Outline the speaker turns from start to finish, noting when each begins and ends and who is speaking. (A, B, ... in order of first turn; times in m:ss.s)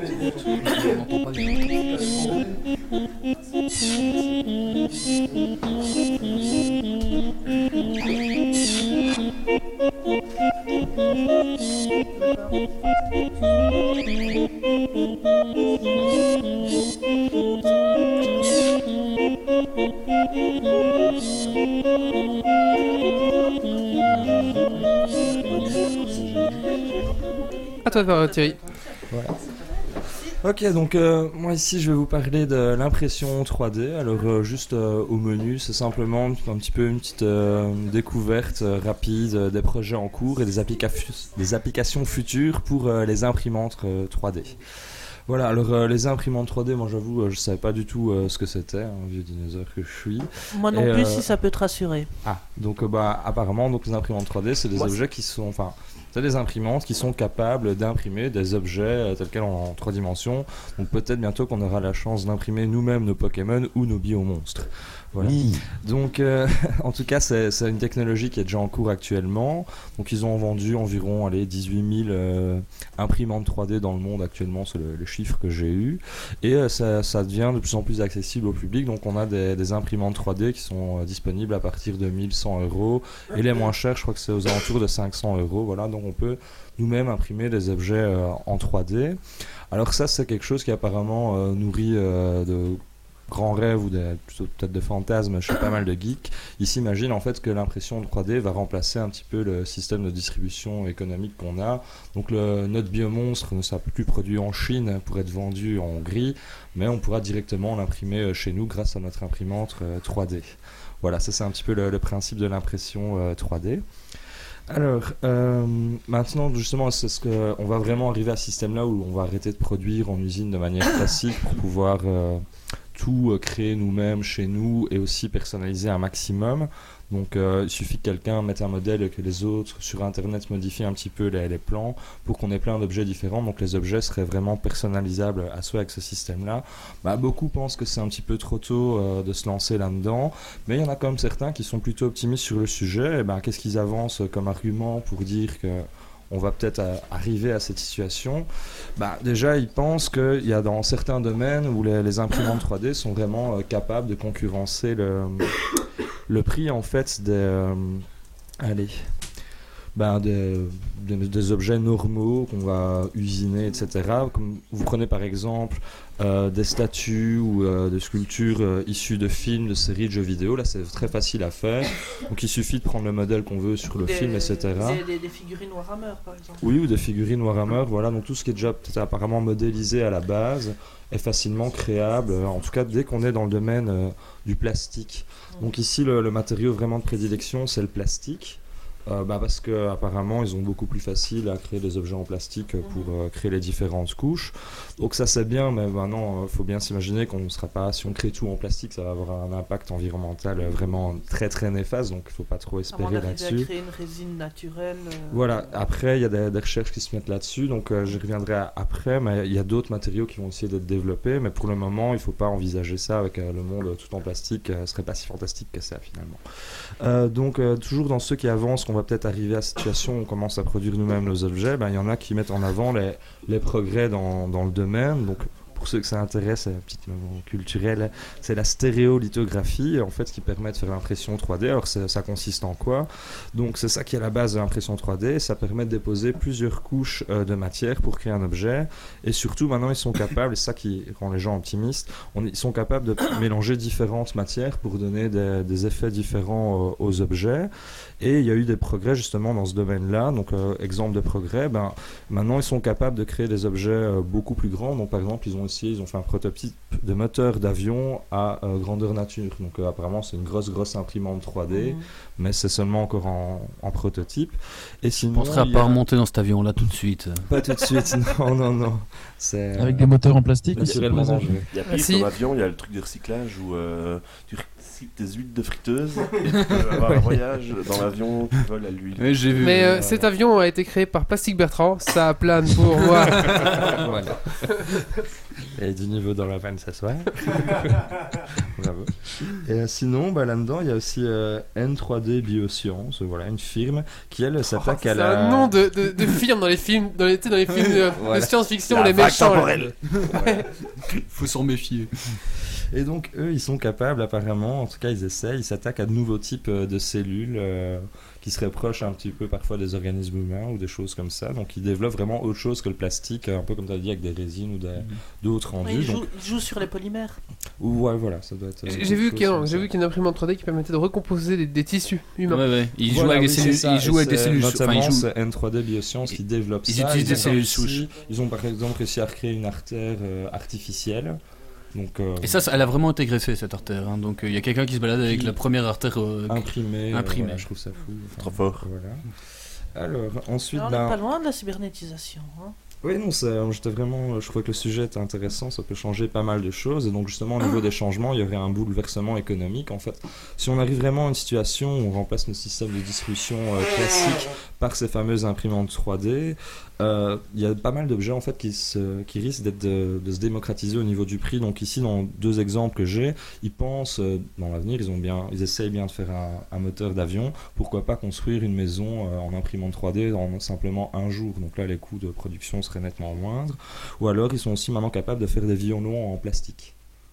0:00.9-0:01.4 A
0:24.0-0:24.8 B
0:25.4-0:26.5 B
0:27.8-0:29.0 C
0:27.8-0:28.6 D
0:29.1-0:29.4 B
0:30.4-0:44.6 B
0:45.3-0:51.3 B
0:50.5-0:52.1 C
0:52.2-1:29.2 B
1:05.2-1:05.6 E
1:29.7-1:53.8 B
1:54.7-2:02.4 B
2:02.9-2:35.5 B
2:36.3-2:38.0 B
2:38.6-2:39.1 B
2:39.9-2:55.0 B
2:54.0-2:56.6 C
2:56.6-3:23.7 B
3:12.8-3:13.1 C
3:22.9-3:25.6 C
3:25.3-3:36.4 B
3:37.0-4:26.0 B
4:21.7-4:22.0 C
4:25.3-4:27.5 A
4:27.5-4:30.1 B
4:29.8-4:31.6 E
4:30.7-4:31.7 B
4:31.7-4:39.6 F
4:31.9-4:32.3 D
4:39.2-4:40.0 A
4:39.6-4:43.6 D
4:39.9-4:40.2 B
4:43.5-4:44.7 B
4:45.7-4:48.0 B
4:48.6-4:55.8 B
4:54.7-4:59.9 D
4:58.1-5:00.4 B
4:58.9-4:59.9 F
5:00.4-5:00.6 D
5:01.3-5:02.1 A
5:02.9-5:16.2 B
5:15.8-5:17.4 C
5:17.8-5:19.9 B
5:18.8-5:22.6 D
5:22.5-5:25.3 A
5:23.0-5:31.4 B
5:26.3-5:28.0 A
5:31.9-5:32.7 B
5:32.4-5:37.6 A
5:35.2-5:35.6 B
5:36.5-5:39.2 B
5:38.4-5:38.8 F
5:39.9-5:41.2 B
5:40.7-5:42.8 C
5:43.0-6:16.9 B